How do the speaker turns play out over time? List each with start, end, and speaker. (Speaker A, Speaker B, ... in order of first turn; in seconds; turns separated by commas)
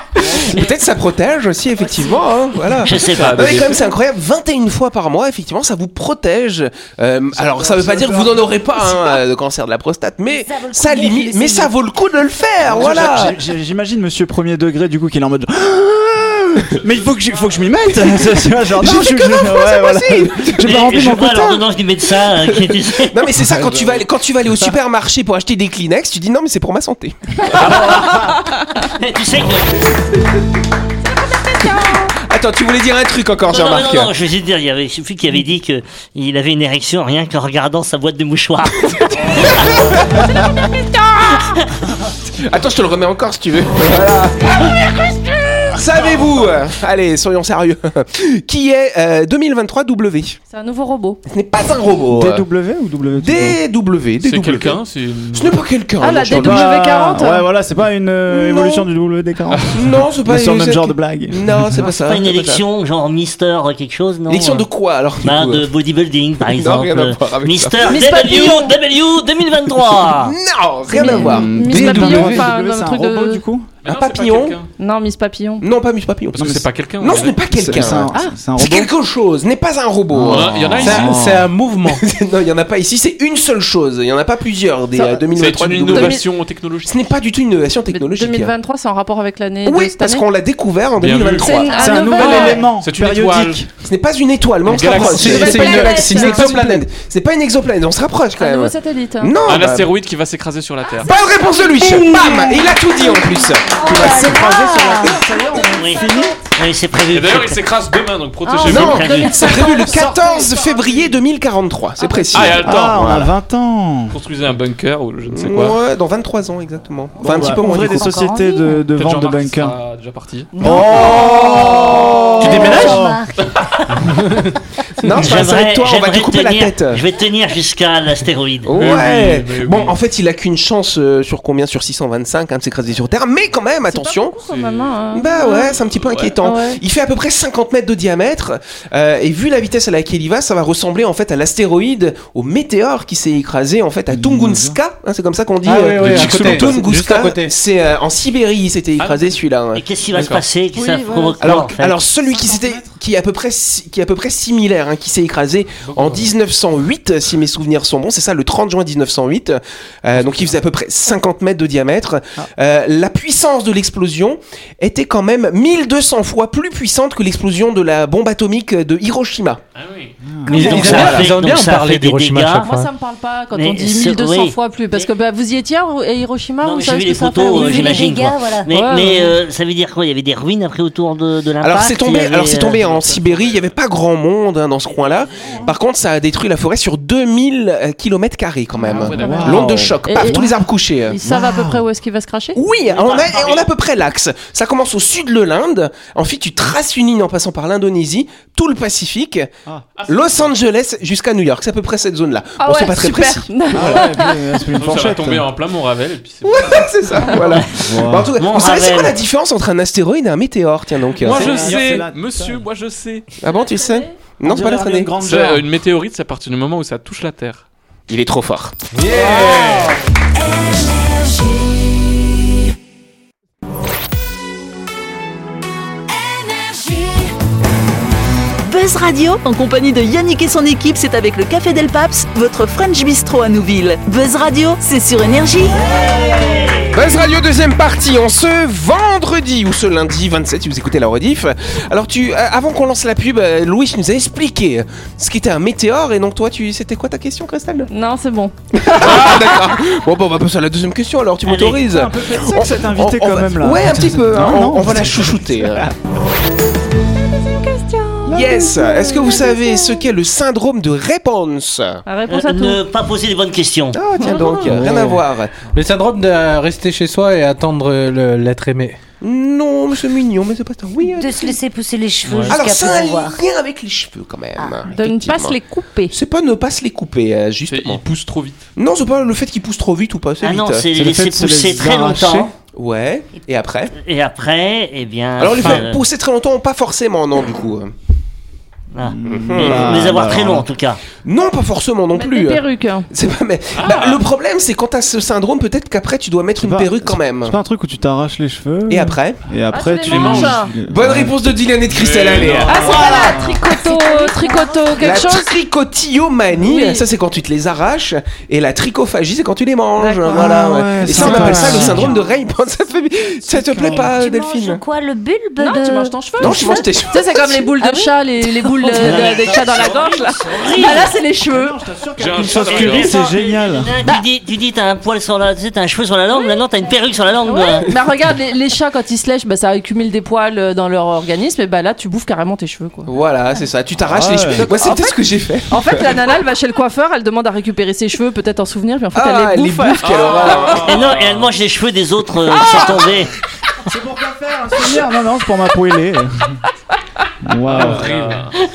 Speaker A: 0.2-13.4, Speaker B: 0.2-0.7, Speaker C: 1.9-2.3, Speaker D: 2.8-3.7, Speaker E: 2.9-3.8, Speaker B: 7.3-8.6, Speaker C: 10.3-11.7, Speaker B: 12.6-21.7, Speaker A: 17.9-21.1, Speaker D: 20.6-23.2, Speaker A: 22.1-27.6, Speaker D: 27.5-29.9, Speaker B: 27.6-28.4, Speaker F: 31.5-32.1, Speaker A: 32.2-34.1, Speaker D: 33.5-39.9, Speaker A: 38.8-40.7, Speaker A: 42.3-50.4, Speaker F: 50.5-51.2, Speaker A: 51.3-52.4, Speaker B: 52.1-53.6, Speaker A: 53.2-54.8, Speaker E: 54.2-55.6, Speaker A: 55.3-56.7, Speaker F: 56.0-57.5, Speaker B: 56.3-61.9, Speaker A: 58.3-58.8, Speaker E: 59.5-59.8, Speaker A: 59.7-62.6, Speaker D: 61.9-64.7, Speaker A: 64.3-65.7, Speaker D: 65.2-70.3, Speaker A: 66.4-68.0, Speaker F: 67.8-68.8, Speaker A: 70.0-72.4, Speaker F: 70.9-73.4, Speaker B: 70.9-73.7, Speaker E: 73.8-74.7, Speaker A: 73.8-74.6, Speaker F: 74.8-75.7, Speaker A: 75.6-81.0, Speaker E: 76.3-78.1, Speaker B: 76.4-76.7, Speaker B: 77.5-78.9, Speaker B: 80.1-81.5, Speaker E: 80.2-81.2, Speaker G: 80.8-82.0, Speaker A: 81.8-86.2, Speaker E: 85.3-87.0, Speaker F: 85.8-86.2, Speaker A: 86.8-88.5, Speaker F: 87.9-90.2, Speaker A: 89.6-91.8, Speaker E: 91.0-93.7, Speaker F: 91.3-92.7, Speaker B: 91.7-93.7, Speaker A: 93.8-99.9, Speaker G: 94.7-96.8, Speaker E: 94.7-95.0, Speaker F: 94.9-96.5, Speaker F: 98.4-99.3, Speaker E: 99.4-101.1, Speaker A: 101.0-104.1, Speaker B: 101.7-102.8, Speaker C: 103.1-105.2, Speaker B: 103.7-106.4, Speaker D: 105.7-107.6, Speaker E: 107.1-109.2, Speaker F: 108.4-111.2, Speaker A: 108.7-113.2, Speaker D: 108.7-109.7, Speaker F: 112.0-112.5, Speaker E: 112.3-113.3, Speaker B: 112.6-114.2, Speaker E: 114.1-115.8, Speaker A: 115.3-118.2, Speaker B: 117.2-119.8, Speaker F: 117.9-118.5, Speaker E: 118.9-120.5, Speaker F: 120.5-122.2, Speaker B: 120.6-123.2, Speaker C: 120.6-123.5, Speaker G: 122.4-123.0, Speaker A: 125.0-127.0, Speaker D: 125.1-128.8, Speaker A: 128.6-134.4, Speaker E: 128.7-130.0, Speaker F: 133.8-135.7, Speaker E: 134.4-136.3, Speaker A: 135.1-149.8, Speaker F: 136.4-136.8, Speaker B: 144.1-144.8, Speaker G: 145.6-147.5, Speaker E: 146.0-146.8, Speaker E: 149.0-149.4, Speaker D: 149.7-152.0, Speaker E: 150.1-150.4, Speaker B: 150.7-153.0, Speaker F: 150.8-151.1, Speaker A: 151.4-169.6, Speaker G: 155.9-156.1, Speaker E: 160.2-160.5, Speaker E: 169.7-170.1, Speaker B: 170.2-170.9, Speaker G: 170.4-172.9, Speaker A: 170.5-171.4, Speaker D: 170.5-172.7, Speaker F: 172.6-178.1, Speaker D: 173.5-175.1, Speaker D: 176.6-182.8, Speaker C: 177.3-178.8, Speaker F: 178.7-179.4, Speaker A: 181.6-191.2, Speaker E: 182.7-183.7, Speaker E: 188.8-189.7, Speaker B: 188.9-190.6, Speaker F: 189.2-189.5, Speaker F: 190.1-190.5, Speaker F: 191.1-192.6, Speaker B: 191.2-191.8, Speaker A: 192.5-199.5, Speaker E: 192.9-193.7, Speaker E: 199.9-200.5, Speaker A: 200.1-203.9, Speaker F: 202.6-204.4, Speaker B: 203.7-205.5, Speaker E: 204.7-207.3, Speaker A: 206.4-211.9, Speaker D: 207.4-207.7, Speaker B: 207.7-208.3, Speaker D: 208.3-209.2, Speaker E: 211.2-213.3, Speaker B: 211.2-212.6, Speaker A: 213.4-215.1, Speaker F: 213.4-214.1, Speaker B: 214.4-215.7, Speaker E: 215.2-217.6, Speaker A: 218.1-218.8, Speaker G: 218.9-219.9, Speaker B: 219.3-219.9, Speaker H: 228.6-235.8, Speaker A: 236.9-247.9, Speaker F: 247.9-249.4, Speaker A: 248.7-255.9, Speaker E: 249.0-249.4, Speaker D: 251.4-251.9, Speaker B: 251.8-255.9, Speaker F: 257.4-260.0, Speaker A: 258.3-262.0, Speaker F: 262.1-262.8, Speaker D: 262.3-264.0, Speaker A: 263.9-265.6, Speaker B: 264.5-265.2, Speaker G: 265.7-269.0, Speaker A: 269.2-271.6, Speaker C: 271.0-273.4, Speaker E: 272.2-272.6, Speaker A: 272.5-275.6, Speaker F: 274.9-276.1, Speaker A: 276.1-278.0, Speaker E: 277.7-278.6, Speaker A: 278.8-280.9, Speaker D: 280.4-282.5, Speaker B: 280.9-282.5, Speaker A: 282.7-283.9, Speaker D: 284.0-286.0, Speaker A: 285.4-287.9, Speaker D: 288.9-291.0, Speaker B: 289.0-290.7, Speaker A: 289.2-290.2, Speaker A: 291.2-297.5, Speaker F: 292.1-293.1, Speaker E: 293.8-294.2, Speaker B: 296.6-301.4, Speaker A: 298.9-299.4, Speaker F: 299.7-300.7, Speaker E: 300.1-300.8, Speaker A: 300.8-302.9, Speaker E: 301.9-303.0, Speaker B: 302.6-303.7, Speaker F: 302.7-305.5, Speaker C: 302.8-305.3, Speaker A: 305.0-314.8, Speaker F: 306.5-307.1, Speaker F: 310.0-311.8, Speaker B: 310.3-312.2, Speaker B: 313.5-314.1, Speaker C: 313.9-316.8, Speaker F: 315.6-321.8, Speaker A: 316.4-317.7, Speaker C: 317.8-319.5, Speaker D: 318.9-321.1, Speaker B: 321.3-323.9, Speaker E: 322.2-323.2, Speaker D: 322.5-327.9, Speaker F: 327.4-333.1, Speaker A: 333.1-336.1, Speaker B: 334.0-334.7, Speaker F: 334.6-335.1, Speaker F: 335.7-340.7, Speaker A: 339.1-341.1, Speaker E: 340.0-341.5, Speaker D: 340.8-343.3, Speaker B: 342.6-343.3, Speaker A: 342.6-343.0, Speaker B: 343.8-346.6, Speaker B: 347.4-348.1, Speaker E: 347.7-348.5, Speaker G: 347.7-348.4